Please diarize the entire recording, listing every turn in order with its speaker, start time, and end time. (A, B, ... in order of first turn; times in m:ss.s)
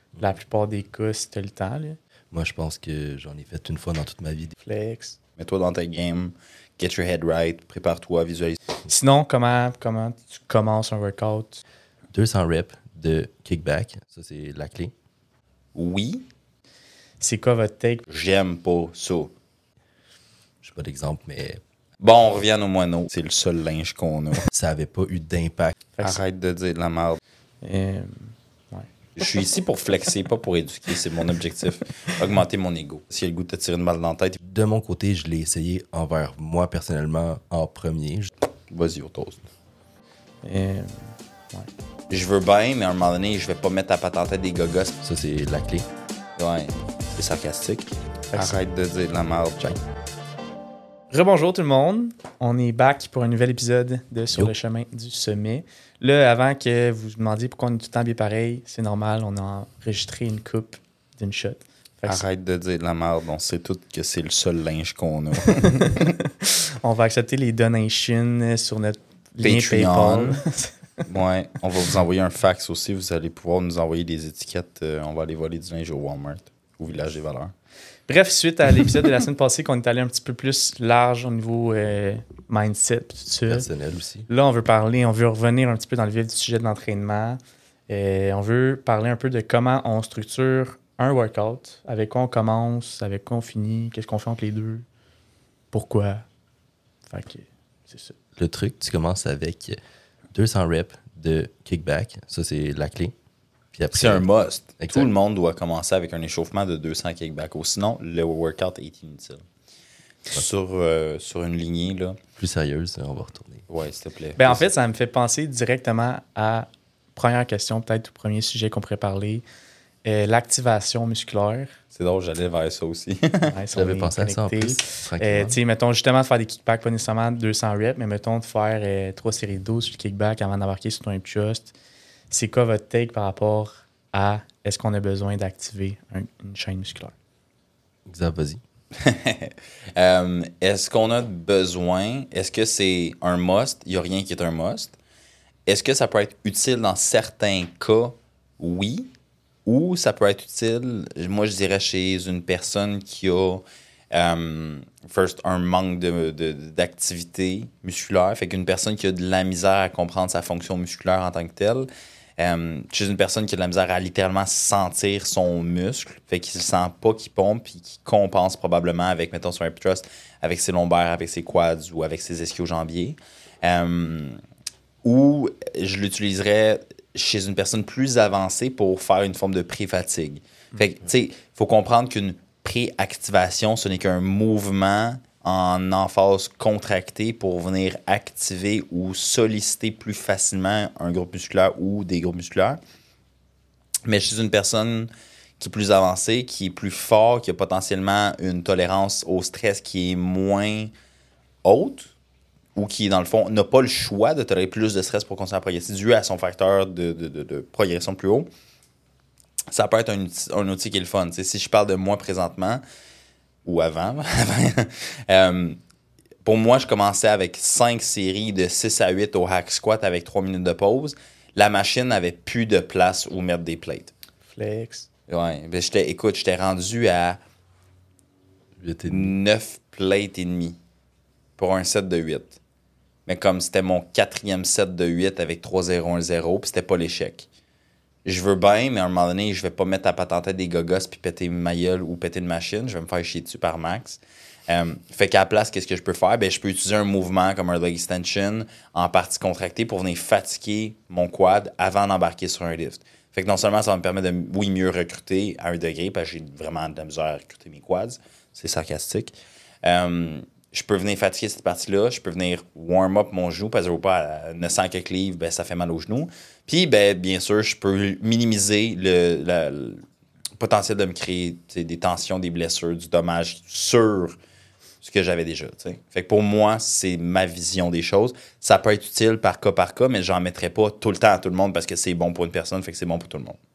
0:00.2-0:02.0 A
0:02.3-0:04.6 B
0:04.6-0:05.2 A
0:05.4-0:08.6 C
0:08.9-0:11.6 A
0:12.1-0:14.9 B
0:15.8-0:16.2 C
0:17.2-0:18.0 A
0:18.1-0:19.3 C
0:20.6-0:21.6 B
0:22.0-0:24.5 C
0:24.5-0:25.8 B
0:26.0-0:26.2 A
0:26.0-0:27.2 C
0:27.6-0:28.9 A
0:29.2-0:34.4 C
0:34.4-0:38.3 B
0:38.7-0:39.5 C
0:40.4-0:41.7 A
0:42.1-0:44.9 C
0:45.0-0:45.9 B
0:46.4-0:49.7 C
0:51.1-1:02.2 A
1:02.1-1:06.1 C
1:05.6-1:10.8 A
1:09.4-1:10.4 C
1:11.1-1:17.5 C
1:18.1-1:23.7 A
1:23.5-1:24.3 B
1:24.3-1:34.8 A
1:35.7-1:36.2 A
1:37.1-1:38.2 A
1:38.4-1:39.8 B
1:40.3-1:43.1 B
1:43.7-1:44.3 B
1:43.9-1:49.4 C
1:44.8-1:45.1 B
1:50.3-1:52.2 C
1:52.4-1:53.6 B
1:53.7-1:54.6 C
1:54.4-1:59.4 A
2:00.0-2:01.8 A
2:01.9-2:03.5 C
2:03.5-2:11.8 A
2:03.8-2:05.6 B
2:12.3-2:17.1 A
2:18.1-2:18.6 B
2:19.0-2:25.0 C
2:25.7-2:29.1 C
2:29.7-2:54.4 C
2:55.0-3:12.8 C
3:14.1-3:20.9 C
3:21.6-3:22.1 C
3:22.8-3:28.5 C
3:29.7-3:32.8 C
3:33.6-3:35.8 C
3:36.4-3:44.1 C
3:44.5-3:45.1 A
3:45.3-3:47.4 C
3:48.8-3:49.4 B
3:49.1-3:50.8 C
3:51.6-3:52.6 C
3:53.3-3:57.5 C
3:58.2-4:30.0 C
4:30.6-4:34.4 C
4:35.0-4:43.6 C